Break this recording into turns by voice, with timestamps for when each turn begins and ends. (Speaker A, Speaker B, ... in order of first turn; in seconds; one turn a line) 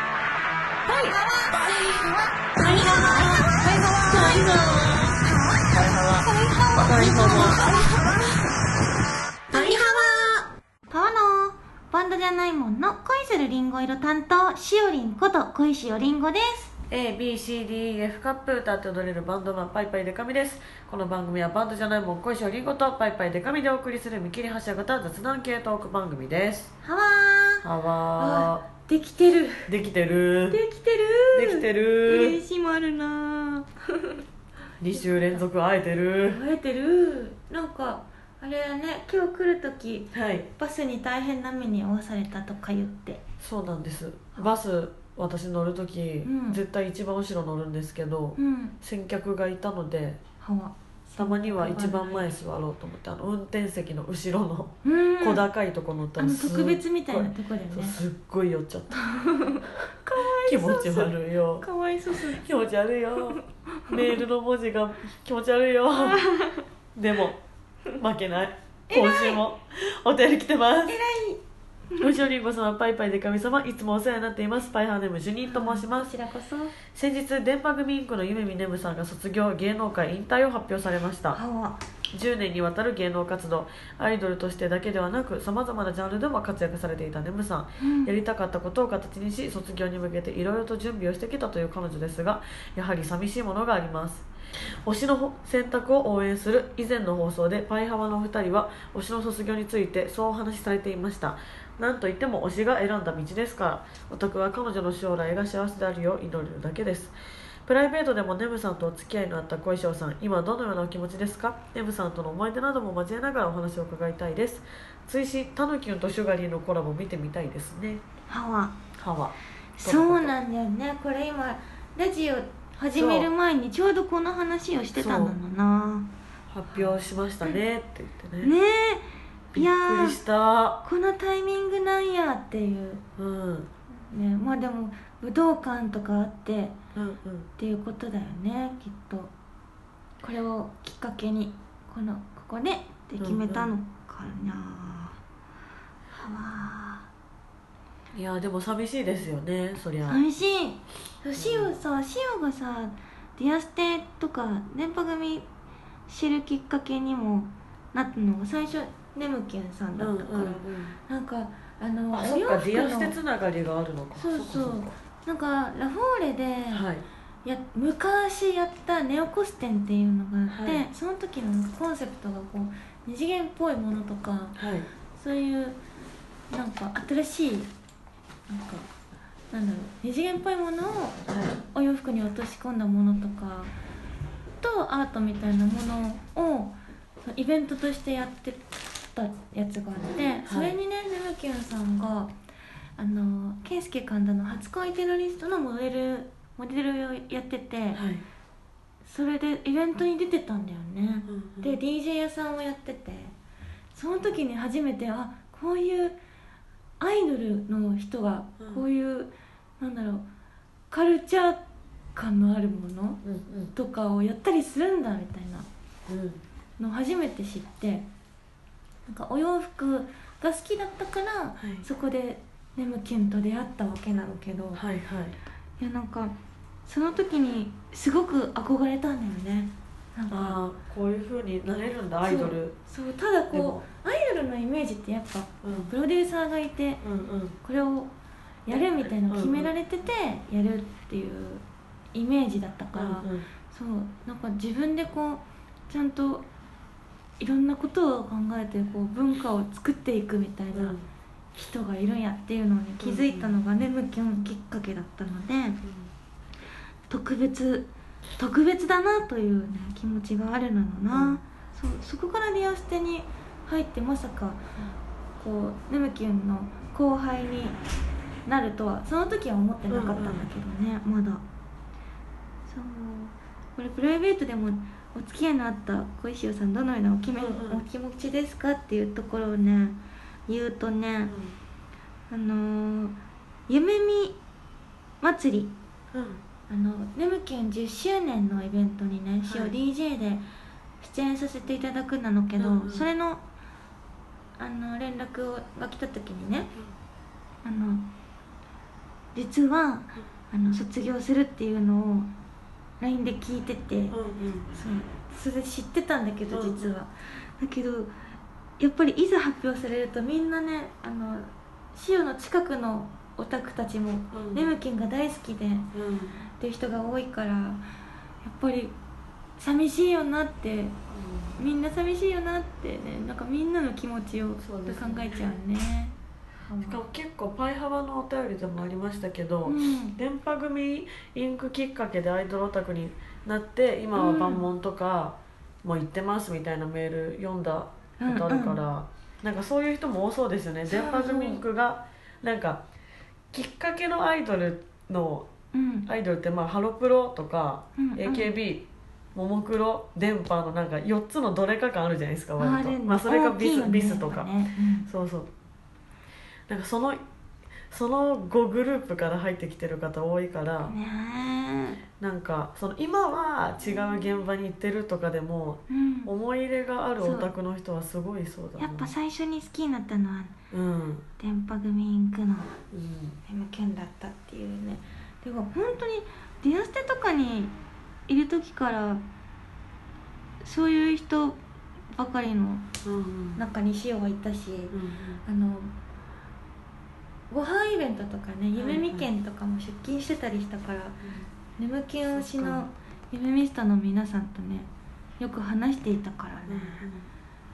Speaker A: 0.9-1.2
Speaker B: 0.9-8.2
Speaker A: 2.6-8.2
Speaker B: 9.5-16.7
Speaker A: 9.5-9.8
Speaker A: 16.9-26.7
Speaker B: 26.8-27.7
Speaker A: 27.6-28.6
Speaker B: 28.2-29.7
Speaker A: 29.7-30.6
Speaker B: 30.5-34.2
Speaker A: 31.3-32.4
Speaker A: 34.8-36.4
Speaker B: 35.0-35.4
Speaker B: 36.3-43.2
Speaker A: 40.1-40.5
Speaker A: 43.4-50.2
Speaker B: 46.2-46.6
Speaker B: 48.4-48.8
Speaker B: 50.4-52.3
Speaker A: 51.2-59.0
Speaker B: 54.8-55.5
Speaker B: 56.2-58.0
Speaker B: 58.9-62.5
Speaker A: 60.2-61.7
Speaker A: 62.3-66.2
Speaker B: 63.3-64.2
Speaker B: 65.9-66.7
Speaker A: 67.0-67.4
Speaker A: 68.0-71.0
Speaker B: 68.9-69.4
Speaker B: 70.9-71.4
Speaker A: 72.0-76.1
Speaker B: 75.5-76.8
Speaker A: 76.9-81.4
Speaker B: 81.3-81.8
Speaker A: 82.1-94.3
Speaker B: 87.8-88.1
Speaker A: 94.8-107.2
Speaker A: 107.7-118.0
Speaker B: 118.3-118.8
Speaker A: 119.0-120.3
Speaker B: 119.8-126.1
Speaker A: 123.0-123.3
Speaker A: 125.0-125.4
Speaker A: 126.5-128.5
Speaker B: 128.4-130.2
Speaker A: 129.5-130.8
Speaker B: 130.8-133.0
Speaker A: 133.2-133.7
Speaker B: 134.1-136.8
Speaker A: 136.9-137.5
Speaker B: 137.6-139.3
Speaker B: 140.2-145.2
Speaker A: 143.2-143.7
Speaker B: 146.1-147.1
Speaker A: 148.1-150.2
Speaker B: 150.1-155.5
Speaker A: 151.4-151.8
Speaker B: 156.1-163.2
Speaker A: 160.0-161.0
Speaker A: 162.1-164.9
Speaker B: 164.2-166.9
Speaker A: 166.7-167.0
Speaker B: 167.4-174.6
Speaker A: 170.5-170.9
Speaker A: 174.6-174.9
Speaker B: 175.1-175.8
Speaker B: 176.5-177.7
Speaker B: 178.5-178.9
Speaker B: 179.5-183.7
Speaker A: 181.3-181.6
Speaker B: 184.6-192.3
Speaker A: 190.5-190.8
Speaker B: 193.0-198.0
Speaker A: 197.9-198.2
Speaker B: 199.1-203.3
Speaker A: 201.3-201.8
Speaker B: 203.9-206.2
Speaker B: 207.0-210.3
Speaker B: 210.9-211.6
Speaker B: 212.2-213.2
Speaker A: 213.2-213.7
Speaker B: 213.8-215.7
Speaker A: 216.1-216.4
Speaker B: 216.8-218.1
Speaker B: 219.1-224.8
Speaker A: 221.6-221.8
Speaker A: 224.8-225.4
Speaker B: 225.8-226.3
Speaker B: 226.9-230.6
Speaker A: 230.3-232.8
Speaker B: 232.2-237.0
Speaker A: 233.5-233.8
Speaker A: 235.6-235.9
Speaker A: 237.0-237.6
Speaker B: 237.6-238.1
Speaker B: 238.7-241.6
Speaker A: 239.3-239.7
Speaker B: 242.1-246.5
Speaker A: 242.9-243.5
Speaker B: 247.4-251.0
Speaker A: 250.7-251.0
Speaker B: 251.6-255.8
Speaker A: 253.0-253.5
Speaker A: 255.8-256.1
Speaker B: 257.1-264.6
Speaker A: 261.1-261.4
Speaker B: 265.4-267.8
Speaker B: 268.5-271.4
Speaker A: 269.9-270.5
Speaker B: 272.7-281.4
Speaker A: 277.4-277.8
Speaker A: 281.3-281.6
Speaker B: 282.3-283.2
Speaker B: 283.7-284.4
Speaker B: 285.2-285.7
Speaker A: 286.1-286.4
Speaker B: 286.7-290.4
Speaker A: 289.4-289.8
Speaker B: 291.0-293.4
Speaker A: 292.6-293.1
Speaker B: 294.6-296.7
Speaker B: 297.6-298.1
Speaker B: 299.4-302.3
Speaker B: 303.0-304.2
Speaker A: 304.1-304.7
Speaker B: 304.7-308.1
Speaker A: 306.5-306.9
Speaker B: 308.8-315.9
Speaker A: 314.3-314.7
Speaker A: 315.9-316.4
Speaker B: 316.6-317.8
Speaker B: 318.4-318.9
Speaker B: 319.6-321.0
Speaker A: 321.1-321.6
Speaker B: 321.6-326.1
Speaker A: 324.6-325.6
Speaker B: 326.7-327.0
Speaker A: 326.8-342.8
Speaker B: 329.6-330.2
Speaker B: 334.2-334.7
Speaker B: 338.2-338.8
Speaker B: 340.9-341.6
Speaker A: 343.5-345.5
Speaker B: 345.7-346.1
Speaker A: 346.1-355.5
Speaker B: 348.0-348.5
Speaker B: 352.6-355.1
Speaker A: 356.7-357.2
Speaker A: 357.9-360.9
Speaker B: 360.9-362.0
Speaker A: 362.2-369.1
Speaker B: 365.9-366.3
Speaker B: 367.2-367.5
Speaker B: 368.8-370.6
Speaker A: 370.7-371.2
Speaker B: 371.4-372.8
Speaker A: 372.9-373.4
Speaker B: 373.5-377.7
Speaker B: 378.3-379.2
Speaker B: 380.6-381.6
Speaker B: 382.1-382.9
Speaker A: 383.1-383.6
Speaker B: 383.6-385.9
Speaker A: 384.9-385.4
Speaker B: 387.5-391.2
Speaker A: 388.8-389.3
Speaker A: 391.2-391.5
Speaker B: 391.8-394.9
Speaker A: 392.3-392.9
Speaker B: 395.4-397.1
Speaker A: 396.7-397.3